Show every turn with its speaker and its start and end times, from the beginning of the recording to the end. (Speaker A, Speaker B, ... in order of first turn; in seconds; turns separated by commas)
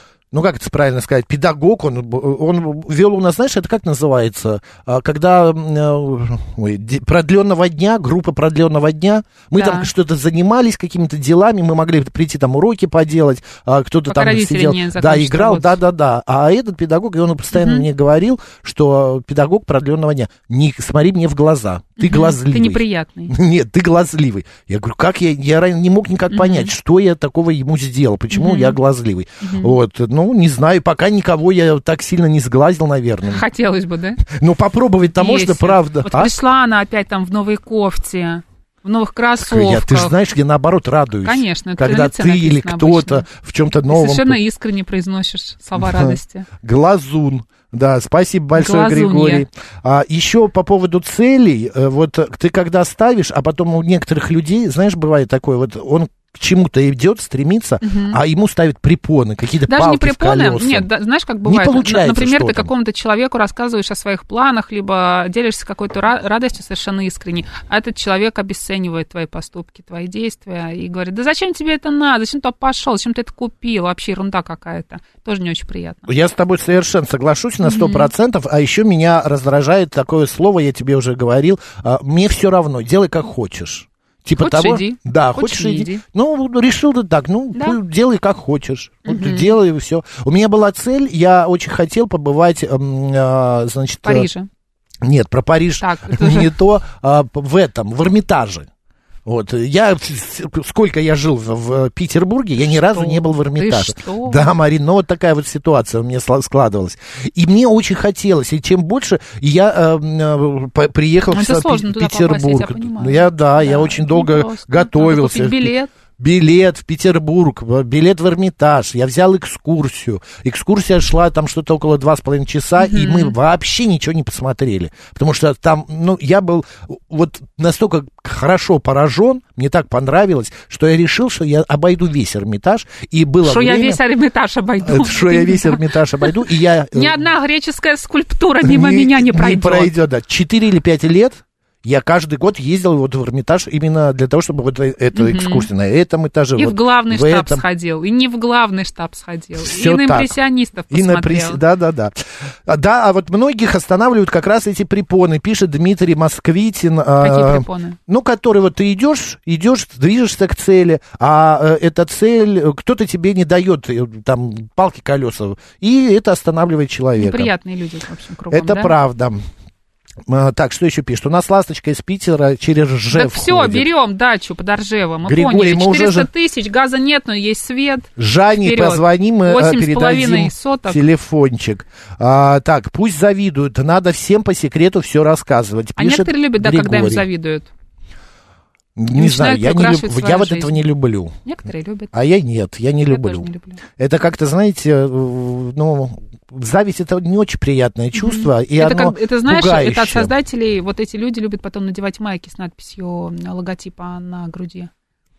Speaker A: 0.3-33.4, Speaker B: 9.6-9.9, Speaker B: 14.1-15.8, Speaker B: 17.5-17.9, Speaker B: 22.0-23.3, Speaker B: 26.3-26.7, Speaker B: 28.3-28.8, Speaker B: 29.4-29.8, Speaker B: 33.3-34.2, Speaker A: 34.3-36.3, Speaker B: 35.2-40.1, Speaker A: 39.4-44.4, Speaker B: 41.2-43.3, Speaker B: 43.9-46.5, Speaker A: 45.8-60.9, Speaker B: 48.5-49.4, Speaker B: 57.8-58.2, Speaker B: 59.7-76.1, Speaker A: 61.4-62.7, Speaker A: 76.1-94.3, Speaker B: 77.6-78.1, Speaker B: 84.4-86.0, Speaker B: 87.5-87.8, Speaker B: 89.0-89.5, Speaker B: 94.0-94.5, Speaker A: 95.0-98.7, Speaker B: 95.8-96.5, Speaker A: 99.2-134.0, Speaker B: 102.9-104.5, Speaker B: 111.3-115.9, Speaker B: 122.8-123.3, Speaker B: 133.4-136.4, Speaker A: 134.8-137.2, Speaker B: 136.9-139.9, Speaker A: 138.6-147.6, Speaker B: 145.1-145.7, Speaker B: 146.6-151.6, Speaker A: 149.6-150.4, Speaker A: 150.9-152.1, Speaker A: 152.7-167.5, Speaker B: 157.2-158.0, Speaker B: 167.2-168.9, Speaker A: 168.5-169.4, Speaker A: 170.3-173.8, Speaker B: 173.1-181.0, Speaker A: 175.2-176.3, Speaker A: 178.2-187.3, Speaker B: 185.9-187.7, Speaker A: 188.9-191.3, Speaker B: 189.1-190.8, Speaker B: 191.4-192.2, Speaker A: 192.1-200.3, Speaker B: 193.1-193.8, Speaker B: 198.1-204.9